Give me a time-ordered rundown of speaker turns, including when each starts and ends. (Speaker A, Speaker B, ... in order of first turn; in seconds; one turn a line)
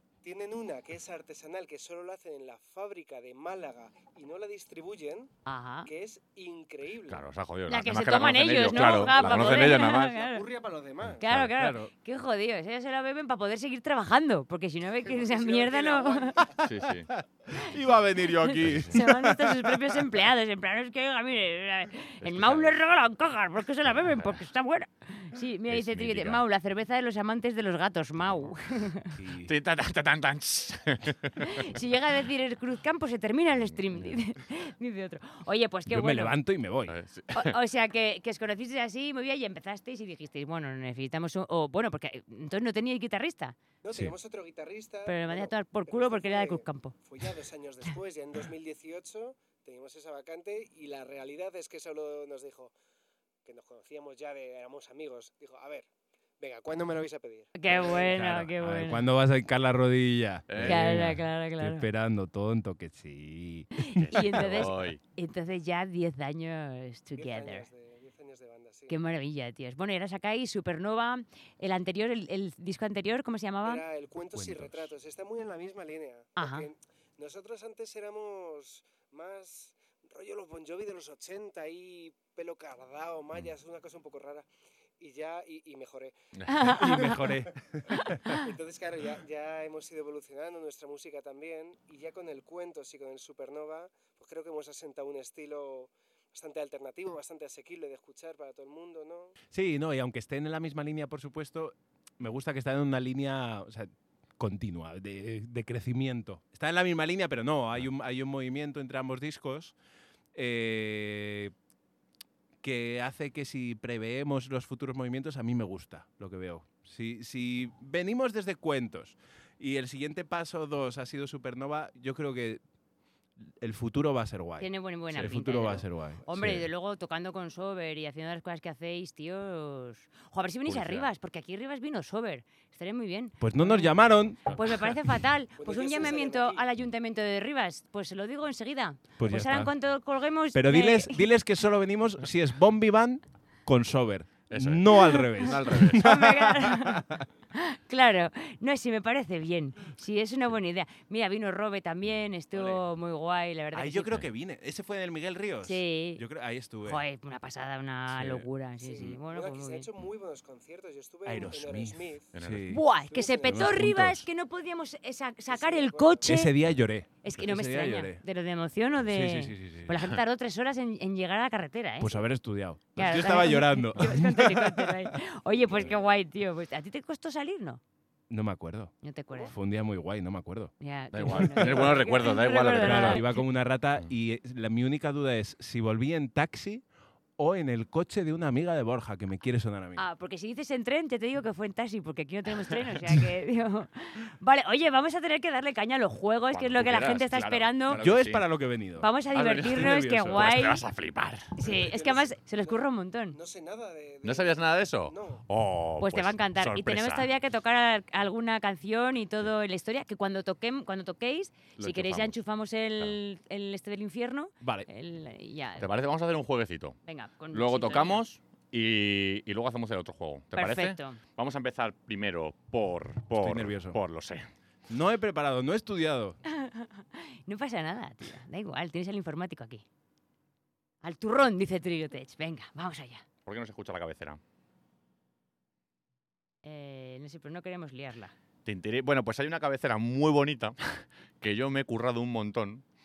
Speaker A: 0.2-7.2
Speaker B: 5.5-5.9
Speaker C: 7.1-10.1
Speaker B: 7.7-10.4
Speaker A: 8.9-11.2
Speaker B: 11.2-16.4
Speaker D: 11.3-11.9
Speaker A: 15.0-16.6
Speaker D: 16.6-20.0
Speaker C: 16.6-17.1
Speaker C: 18.4-18.9
Speaker B: 18.9-29.2
Speaker C: 22.2-22.8
Speaker C: 25.7-26.4
Speaker C: 28.3-28.5
Speaker D: 29.2-29.5
Speaker C: 29.4-31.7
Speaker B: 31.4-36.4
Speaker C: 33.7-34.1
Speaker D: 35.9-37.0
Speaker C: 36.9-37.6
Speaker B: 37.3-43.6
Speaker A: 43.8-52.7
Speaker B: 45.1-47.0
Speaker A: 53.5-55.9
Speaker A: 56.4-57.5
Speaker B: 57.5-59.1
Speaker D: 57.7-64.7
Speaker C: 60.5-61.1
Speaker B: 60.6-61.9
Speaker B: 63.8-67.7
Speaker C: 64.0-65.0
Speaker A: 67.2-69.0
Speaker B: 68.9-73.8
Speaker A: 73.6-84.5
Speaker D: 74.3-74.9
Speaker B: 76.4-76.7
Speaker A: 85.0-86.1
Speaker B: 86.5-87.3
Speaker D: 86.6-88.4
Speaker B: 87.9-88.4
Speaker A: 88.4-99.3
Speaker D: 99.5-109.8
Speaker D: 110.3-111.5
Speaker D: 112.6-122.6
Speaker D: 123.5-126.7
Speaker B: 124.6-141.2
Speaker C: 130.7-131.1
Speaker D: 133.4-134.4
Speaker C: 134.4-134.7
Speaker A: 135.6-136.7
Speaker D: 139.2-139.7
Speaker D: 140.5-147.2
Speaker C: 144.5-146.0
Speaker B: 145.4-154.2
Speaker D: 152.5-152.8
Speaker D: 153.7-157.0
Speaker B: 155.6-156.2
Speaker B: 156.8-159.9
Speaker D: 158.1-159.1
Speaker A: 158.9-162.3
Speaker D: 161.2-162.9
Speaker C: 162.3-162.8
Speaker B: 162.7-166.5
Speaker A: 163.1-163.9
Speaker D: 163.4-164.2
Speaker A: 165.5-166.4
Speaker D: 166.2-168.2
Speaker B: 167.2-172.2
Speaker D: 169.1-169.9
Speaker D: 172.0-175.2
Speaker B: 172.9-177.8
Speaker D: 178.3-180.7
Speaker B: 179.0-179.5
Speaker B: 180.8-183.4
Speaker C: 181.1-183.4
Speaker D: 181.3-182.1
Speaker D: 182.8-186.8
Speaker D: 187.4-190.0
Speaker B: 190.0-198.0
Speaker C: 196.5-198.4
Speaker D: 197.9-199.1
Speaker B: 199.0-200.8
Speaker C: 199.3-201.5
Speaker D: 199.6-200.6
Speaker B: 201.6-203.4
Speaker A: 201.6-205.4
Speaker C: 204.2-207.3
Speaker B: 206.0-215.9
Speaker C: 211.8-212.3
Speaker D: 214.6-214.9
Speaker C: 215.8-217.0
Speaker B: 217.1-218.2
Speaker C: 217.5-224.5
Speaker B: 220.5-221.2
Speaker D: 223.4-224.0
Speaker D: 224.9-226.4
Speaker B: 226.5-229.8
Speaker B: 231.0-233.2
Speaker C: 233.5-234.4
Speaker B: 236.6-238.3
Speaker C: 238.7-242.8